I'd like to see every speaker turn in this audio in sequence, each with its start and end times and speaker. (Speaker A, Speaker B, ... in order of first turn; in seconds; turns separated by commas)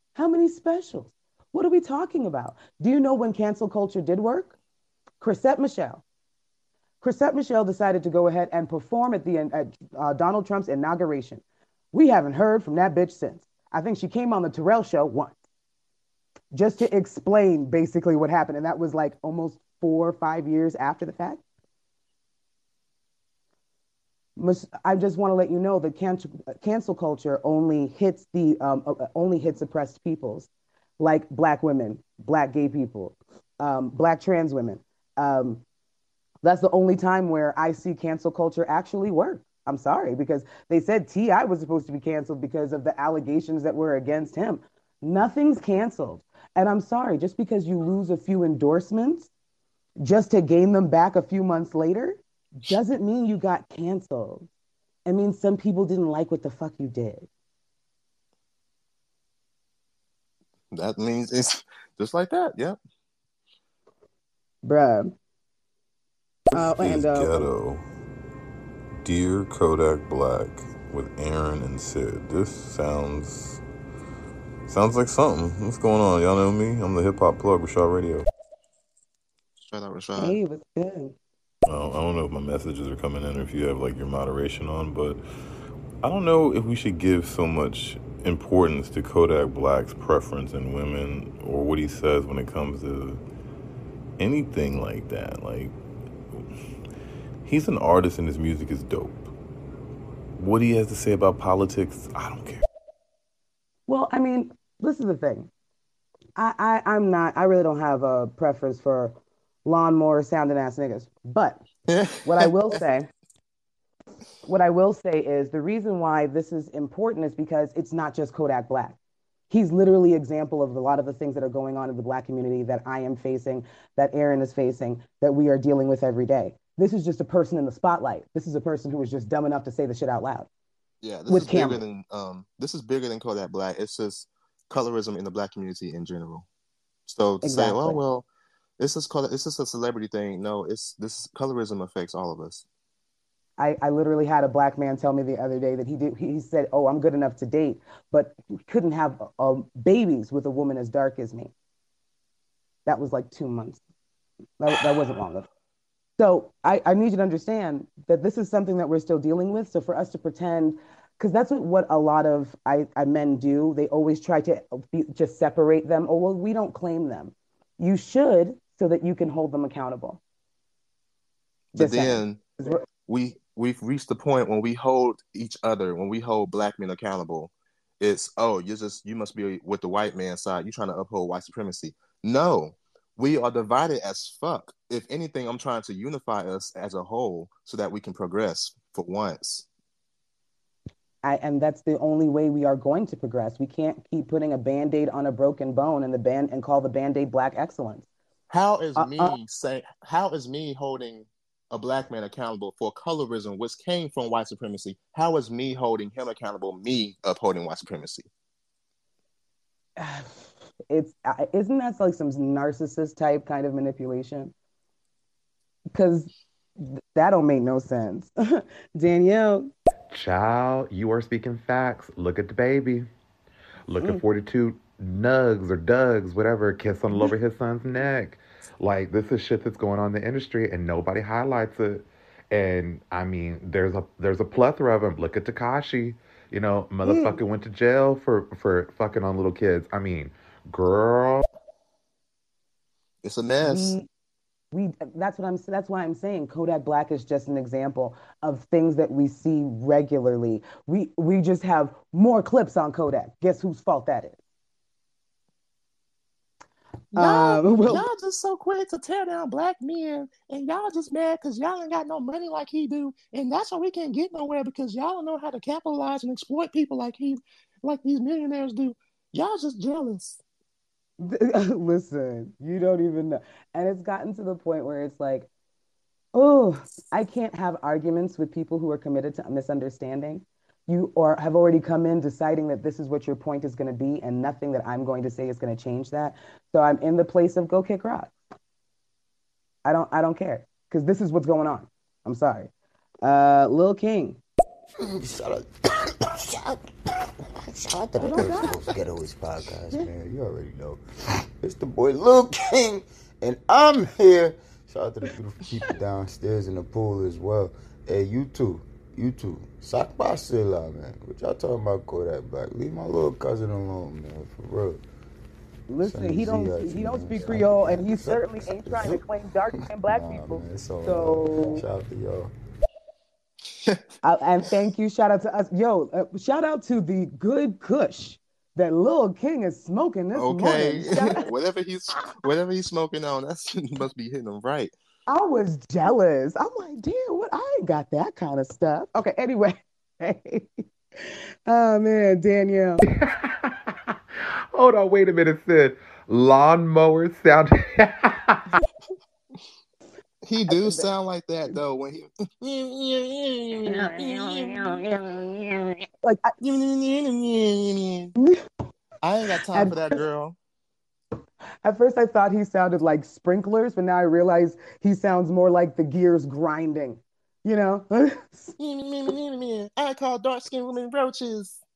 Speaker A: 0.1-4.5, Speaker A: 5.2-6.0, Speaker A: 7.0-11.4, Speaker A: 11.9-15.4, Speaker A: 16.5-21.4, Speaker A: 24.4-35.6, Speaker A: 36.4-49.3, Speaker A: 50.0-54.5, Speaker A: 55.1-57.3, Speaker B: 60.7-62.8, Speaker A: 64.6-65.1, Speaker A: 66.5-67.4, Speaker C: 66.5-67.9, Speaker C: 69.0-73.6, Speaker C: 74.7-78.3, Speaker B: 79.6-80.4, Speaker A: 80.2-81.1, Speaker C: 81.7-85.2, Speaker C: 86.0-93.2, Speaker C: 94.2-95.8, Speaker C: 97.5-99.3, Speaker C: 100.4-102.6, Speaker A: 103.9-105.5, Speaker A: 106.4-111.6, Speaker B: 111.9-112.5, Speaker A: 112.2-113.1, Speaker A: 114.5-119.0, Speaker A: 119.5-130.5, Speaker B: 131.0-136.5, Speaker A: 131.3-131.8, Speaker B: 137.1-138.3, Speaker A: 137.4-138.0, Speaker B: 138.8-142.6, Speaker A: 143.6-151.5, Speaker A: 152.9-153.8, Speaker A: 154.6-155.5, Speaker A: 156.2-170.2, Speaker B: 171.7-172.4, Speaker A: 171.8-172.8, Speaker B: 173.1-189.7, Speaker A: 191.2-198.1, Speaker B: 198.5-208.3, Speaker A: 199.0-199.4, Speaker A: 210.0-214.5, Speaker A: 215.9-219.7, Speaker D: 220.1-223.1, Speaker D: 223.9-241.4, Speaker A: 237.0-237.4, Speaker B: 243.2-244.0, Speaker A: 243.6-244.1, Speaker A: 244.7-254.4, Speaker A: 257.1-258.1, Speaker B: 257.1-270.4, Speaker A: 271.2-275.5, Speaker A: 276.3-288.3, Speaker A: 289.9-292.7, Speaker A: 293.2-294.4, Speaker E: 295.1-295.7, Speaker E: 296.2-301.0, Speaker A: 298.2-298.8, Speaker E: 301.6-315.0, Speaker A: 315.9-321.8, Speaker E: 316.0-319.3, Speaker E: 320.1-322.5, Speaker A: 324.2-331.4, Speaker B: 330.4-334.9, Speaker A: 335.3-343.0, Speaker D: 343.1-343.9, Speaker D: 344.7-348.8, Speaker B: 350.4-355.0, Speaker A: 350.7-351.1, Speaker A: 353.8-355.0, Speaker A: 356.2-356.6, Speaker B: 356.6-358.3, Speaker A: 358.4-358.6, Speaker B: 359.2-360.6, Speaker A: 359.7-360.2, Speaker A: 361.8-368.8, Speaker B: 368.8-371.8